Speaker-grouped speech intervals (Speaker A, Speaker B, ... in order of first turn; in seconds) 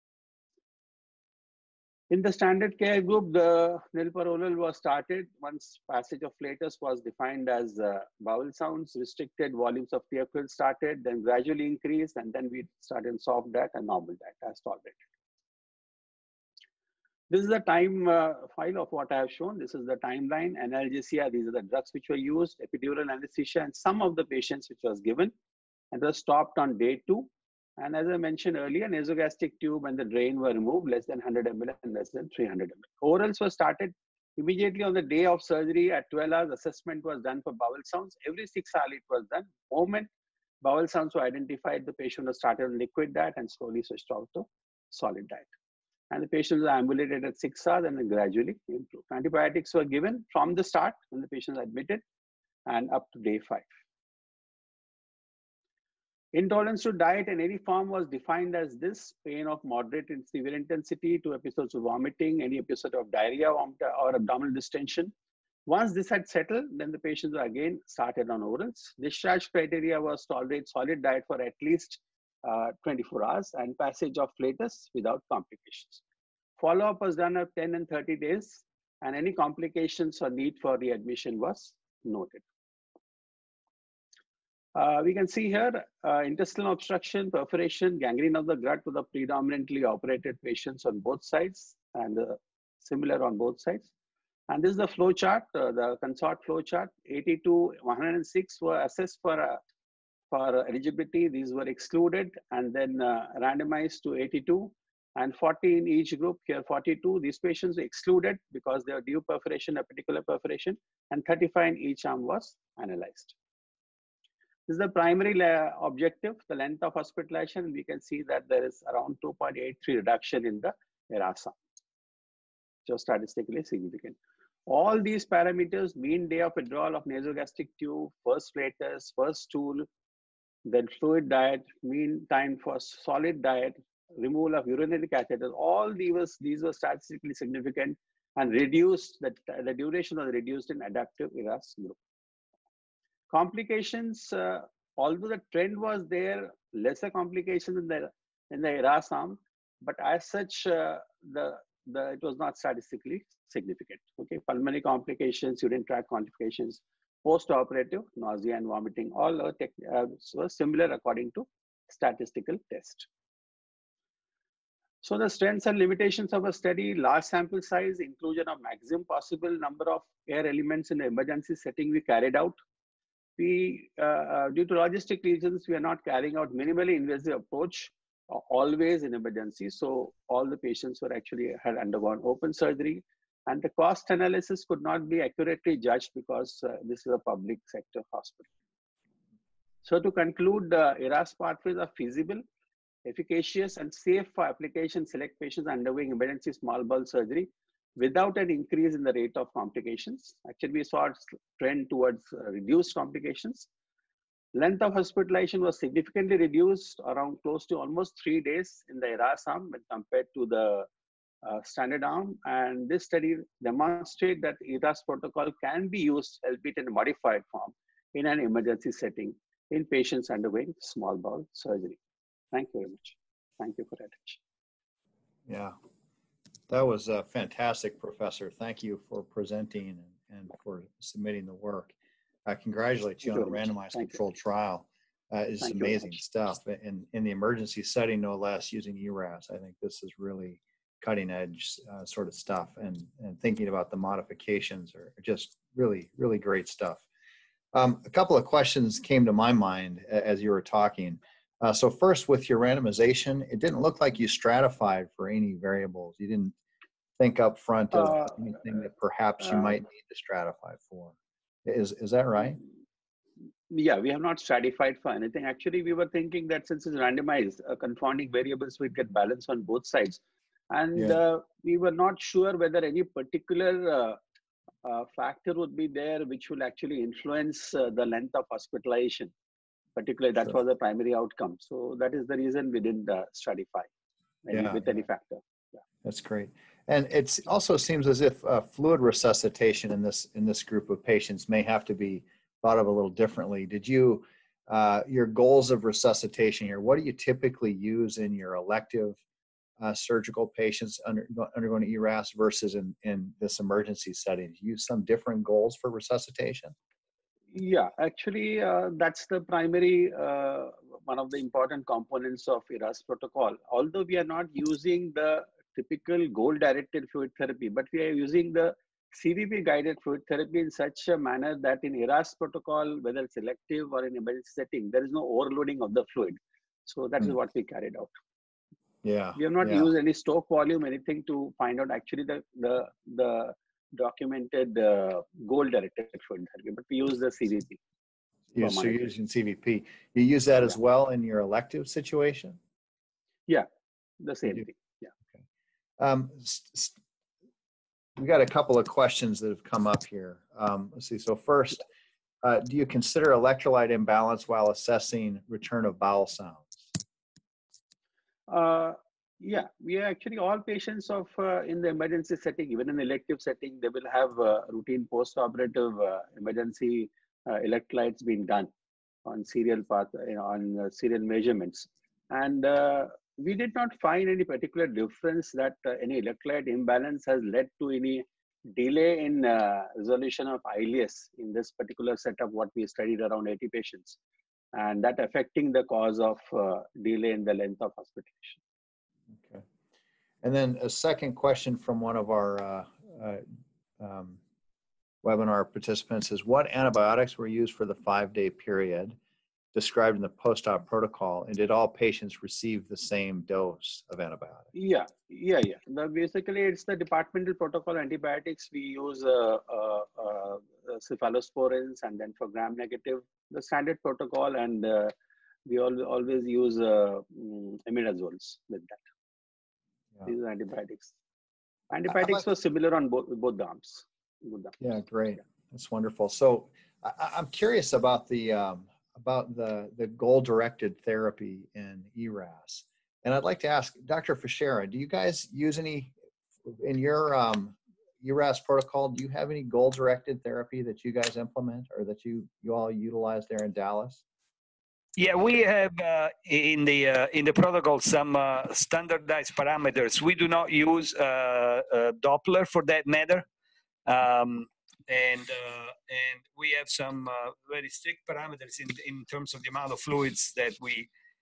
Speaker A: 2.1-15.0, 17.3-25.3, 25.9-40.1, 40.6-45.5, 46.1-52.0, 52.7-53.7, 56.3-65.1, 65.7-76.0, 76.6-82.4, 84.7-93.9, 94.5-99.6, 100.3-113.3, 114.7-121.5, 122.9-129.9, 130.7-142.0, 143.3-163.1, 165.0-172.6, 173.4-188.5, 189.8-192.4, 193.0-203.7, 204.5-210.9, 211.4-222.0, 222.5-224.4, 233.3-234.2, 235.6-236.2, 257.9-258.5, 259.5-259.7, 263.7-274.2, 274.8-279.3, 280.0-283.9, 284.4-285.4, 307.5-328.1, 329.4-337.8, 338.6-339.1, 344.2-345.1, 358.5-368.7, 369.2-384.2, 384.7-388.6, 404.7-415.1, 415.6-419.0, 420.2-421.1, 421.9-424.8
Speaker B: 225.5-225.7, 226.7-231.9, 232.4-247.0, 247.7-256.5, 257.2-262.6, 284.5-284.8, 286.0-299.2, 299.8-306.7, 329.0-329.9, 338.5-342.6, 346.0-347.0, 348.2-351.9, 352.4-356.9, 389.4-389.6, 390.4-393.4, 394.0-394.4, 395.2-399.2, 399.7-404.7, 422.1-422.4, 424.8-436.1, 436.7-444.2
Speaker C: 445.2-453.4, 454.1-461.1